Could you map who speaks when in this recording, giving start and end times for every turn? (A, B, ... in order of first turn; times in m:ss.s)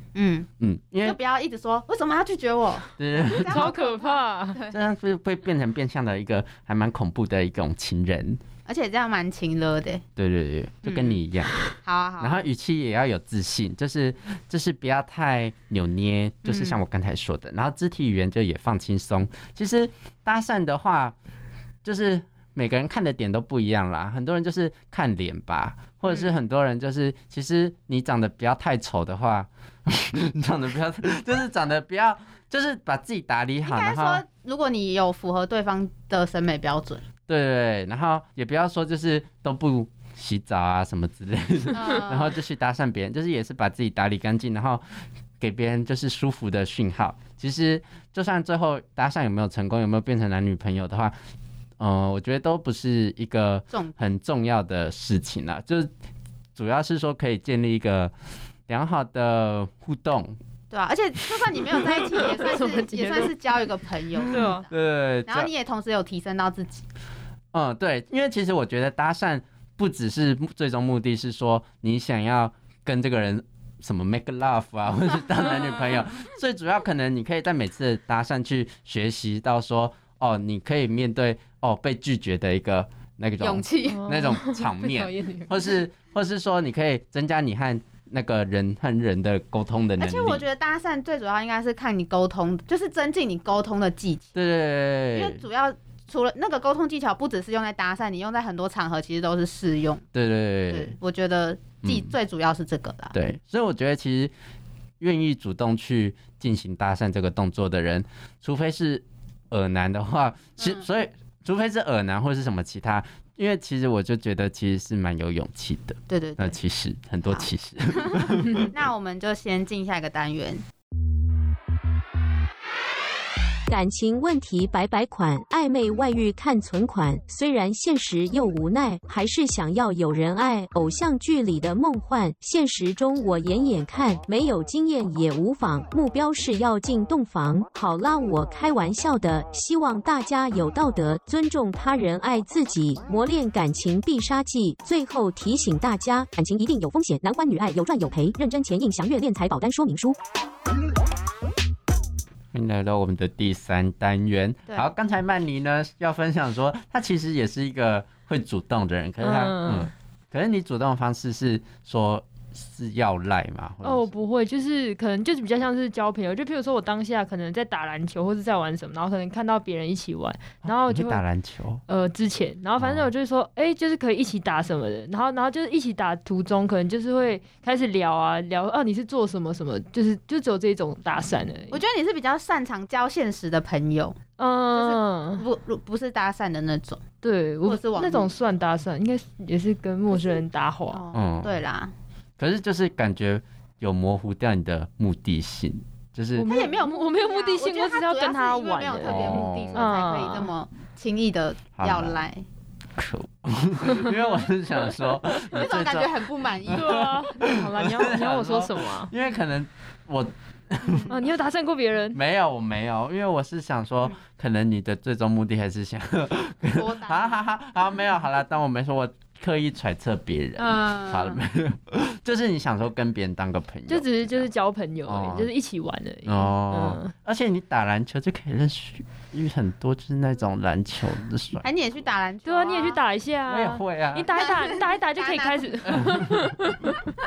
0:00.2-0:00.5 A
0:00.6-0:01.2 B
0:01.0-0:04.7 A
0:03.0-0:03.7 B
0:03.5-0:04.6 C
0:04.7-0:08.4 B
0:08.7-0:10.0 A
0:10.2-0:11.6 B
0:10.8-0:12.4 A
0:12.2-0:21.2 B
0:16.4-0:16.8 A
0:21.8-0:34.2 B
0:26.1-0:26.3 A
0:33.6-0:37.0 A
0:37.3-0:44.8 B
0:41.7-0:42.4 A
0:45.4-0:51.2 B
0:51.8-0:55.9 B
0:53.7-0:54.1 A
0:56.6-0:58.1 B
0:58.7-1:00.4 B
1:00.7-1:04.7 A
1:02.1-1:03.3 C
1:04.3-1:04.6 C
1:04.3-1:05.5 B
1:05.3-1:06.9 A
1:07.5-1:30.4 B
1:23.4-1:24.0 A
1:23.9-1:25.8 C
1:30.0-1:34.4 A
1:34.4-1:35.4 B
1:35.1-1:40.0 A
1:40.1-1:41.0 B
1:40.7-1:43.2 A
1:41.8-1:42.1 B
1:43.1-1:44.3 B
1:45.0-1:58.7 B
1:50.6-1:50.8 A
1:56.1-1:56.6 A
1:57.3-2:00.6 A
2:03.7-2:30.2 D
2:32.5-2:44.1 B
2:39.2-2:39.9 C
2:43.8-2:51.2 C
2:50.6-2:51.8 B
2:51.9-3:01.8 C
2:52.8-2:53.1 B
3:01.7-3:04.2 A
3:04.4-3:05.4 C
3:04.7-3:07.0 A
3:07.2-3:11.0 C
3:07.6-3:08.4 A
3:10.1-3:11.9 A
3:11.1-3:11.6 B
3:12.4-3:16.5 B
3:16.4-3:20.5 C
3:16.4-3:22.4 A
3:19.0-3:19.9 B
3:21.8-3:22.2 B
3:23.0-3:31.1 B
3:25.5-3:27.1 A
3:26.7-3:29.1 C
3:30.8-3:31.2 A
3:31.1-3:32.2 C
3:32.1-3:44.5 B
3:36.8-3:37.4 A
3:40.6-3:41.4 A
3:43.9-3:47.1 C
3:45.1-3:45.5 B
3:46.2-3:51.6 B
3:51.6-3:53.0 A
3:52.5-3:56.9 C
3:53.5-3:54.3 B
3:54.3-3:56.3 A
3:55.9-3:56.4 B